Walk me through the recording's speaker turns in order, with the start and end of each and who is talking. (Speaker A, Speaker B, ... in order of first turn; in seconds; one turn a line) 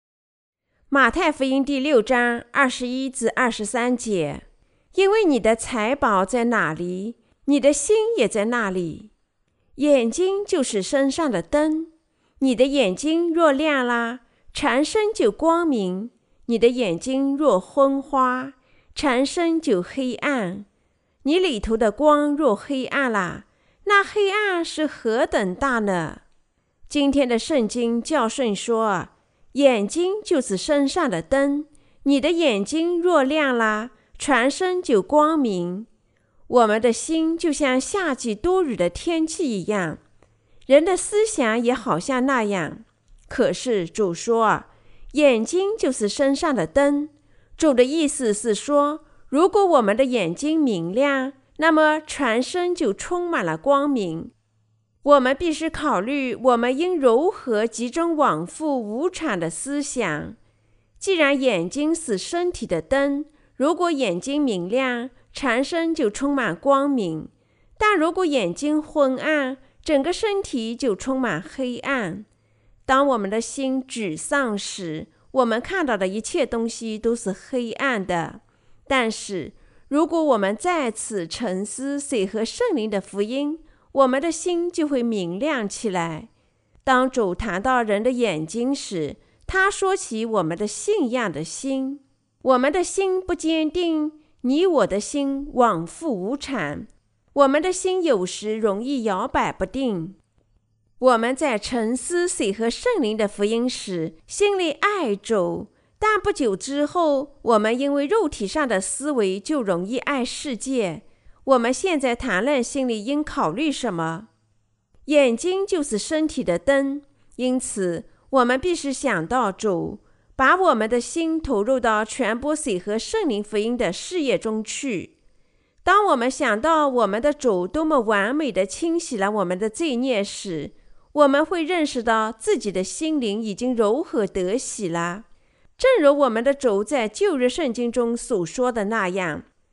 Speaker A: 0.9-9.1
Speaker A: 9.8-20.6
Speaker A: 21.2-26.2
Speaker A: 26.9-35.9
Speaker A: 36.5-40.0
Speaker A: 40.7-54.3
Speaker A: 55.0-60.4
Speaker A: 61.0-72.2
Speaker A: 72.8-86.3
Speaker A: 86.8-100.2
Speaker A: 101.0-114.3
Speaker A: 115.0-125.1
Speaker A: 125.8-135.2
Speaker A: 135.8-139.4